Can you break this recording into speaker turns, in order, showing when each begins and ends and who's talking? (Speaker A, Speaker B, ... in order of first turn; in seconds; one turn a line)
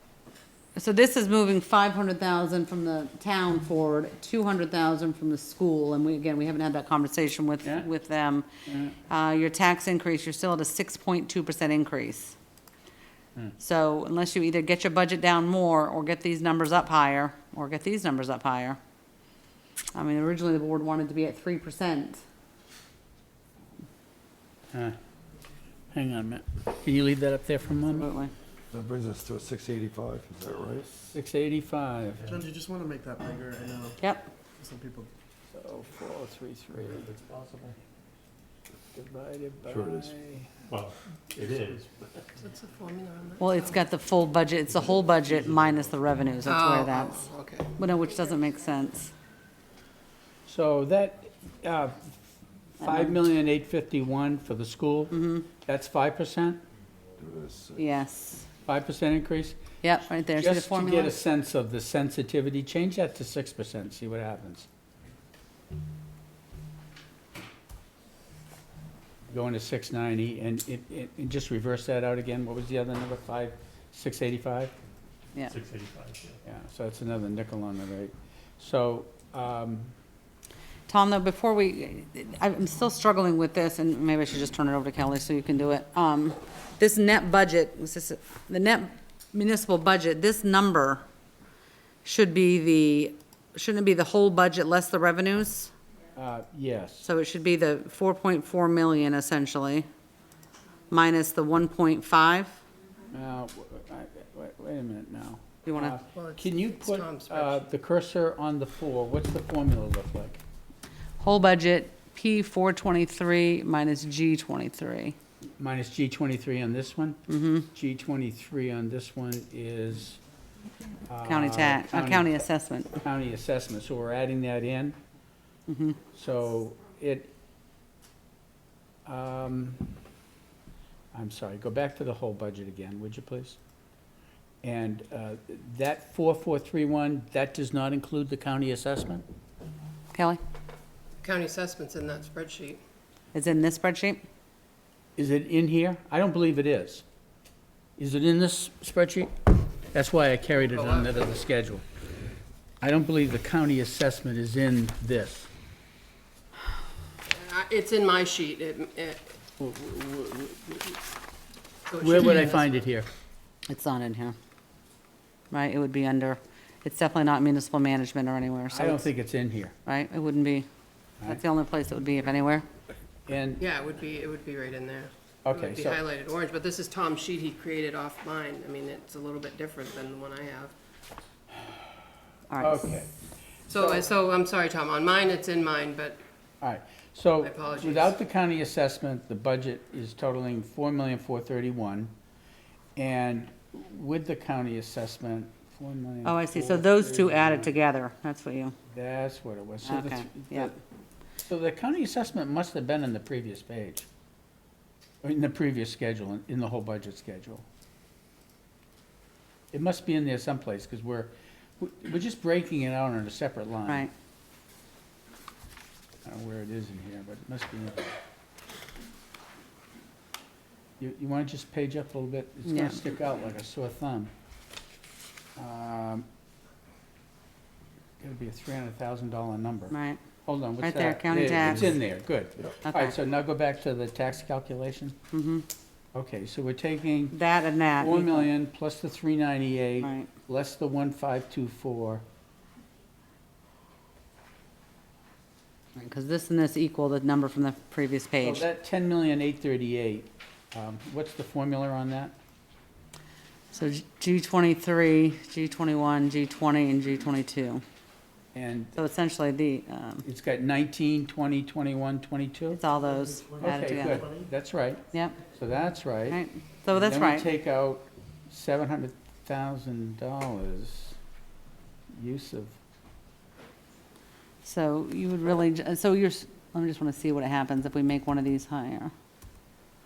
Speaker A: 0.7-8.4
Speaker B: 8.7-8.9
Speaker A: 9.1-12.3
Speaker A: 13.6-18.8
Speaker A: 19.9-22.2
Speaker B: 25.9-28.1
Speaker A: 27.9-28.3
Speaker C: 28.7-31.1
Speaker B: 31.1-32.3
Speaker D: 32.2-34.0
Speaker A: 34.0-34.3
Speaker D: 34.6-35.1
Speaker B: 35.5-37.1
Speaker E: 37.0-37.7
Speaker B: 38.9-40.5
Speaker C: 39.7-40.1
Speaker E: 40.7-42.4
Speaker F: 42.4-43.8
Speaker A: 43.4-49.1
Speaker E: 44.6-46.1
Speaker F: 46.4-47.7
Speaker B: 50.5-52.1
Speaker A: 52.8-53.1
Speaker B: 52.8-56.6
Speaker A: 55.1-55.5
Speaker C: 57.2-57.8
Speaker A: 57.8-58.5
Speaker B: 58.6-59.8
Speaker A: 59.8-61.1
Speaker B: 60.4-64.7
Speaker B: 69.3-74.7
Speaker E: 75.4-76.4
Speaker B: 76.4-79.9
Speaker A: 80.9-91.0
Speaker A: 92.0-95.7
Speaker B: 96.1-97.1
Speaker A: 97.0-99.8
Speaker A: 100.9-102.6
Speaker B: 103.1-110.4
Speaker A: 105.7-105.9
Speaker F: 106.1-107.7
Speaker A: 111.2-115.2
Speaker B: 115.6-117.2
Speaker A: 117.3-117.7
Speaker B: 117.7-120.2
Speaker B: 121.1-122.3
Speaker A: 121.2-123.0
Speaker B: 122.9-125.0
Speaker A: 125.7-126.0
Speaker B: 126.1-127.3
Speaker B: 129.1-129.9
Speaker B: 131.1-133.6
Speaker B: 134.6-139.2
Speaker A: 140.1-140.4
Speaker F: 141.2-142.8
Speaker A: 143.3-144.2
Speaker B: 145.2-147.0
Speaker B: 148.0-149.3
Speaker B: 149.9-151.8
Speaker F: 150.7-151.2
Speaker B: 152.8-155.5
Speaker F: 157.3-159.2
Speaker B: 159.6-161.0
Speaker F: 161.9-162.8
Speaker B: 162.0-163.1
Speaker A: 163.7-164.3
Speaker A: 165.5-169.1
Speaker B: 168.7-169.7
Speaker A: 169.8-170.7
Speaker A: 171.2-172.7
Speaker B: 173.3-173.6
Speaker F: 173.6-180.7
Speaker B: 175.4-176.0
Speaker A: 182.5-182.9
Speaker B: 182.6-183.1
Speaker F: 183.7-186.2
Speaker B: 183.7-184.0
Speaker B: 186.6-192.1
Speaker F: 187.4-188.1
Speaker B: 192.9-197.8
Speaker A: 196.2-198.7
Speaker B: 198.9-200.8
Speaker A: 199.8-200.7
Speaker B: 201.4-204.1
Speaker B: 205.2-207.6
Speaker B: 209.7-214.1
Speaker A: 213.8-214.1
Speaker B: 216.2-218.1
Speaker B: 221.0-224.3
Speaker A: 222.7-223.0
Speaker B: 225.6-226.2
Speaker B: 228.2-235.2
Speaker A: 229.9-230.2
Speaker A: 230.8-232.0
Speaker A: 232.8-233.1
Speaker A: 235.3-235.7
Speaker B: 236.1-237.4
Speaker A: 237.3-238.5
Speaker B: 238.0-242.2
Speaker A: 240.0-240.3
Speaker A: 245.9-248.6
Speaker B: 248.4-252.3
Speaker A: 253.7-257.8
Speaker B: 258.5-259.0
Speaker A: 258.9-260.2
Speaker B: 260.2-262.8
Speaker A: 262.7-264.3
Speaker D: 263.1-264.5
Speaker B: 263.6-271.2
Speaker A: 265.1-265.4
Speaker A: 266.3-267.5
Speaker B: 272.1-272.8
Speaker A: 274.6-279.1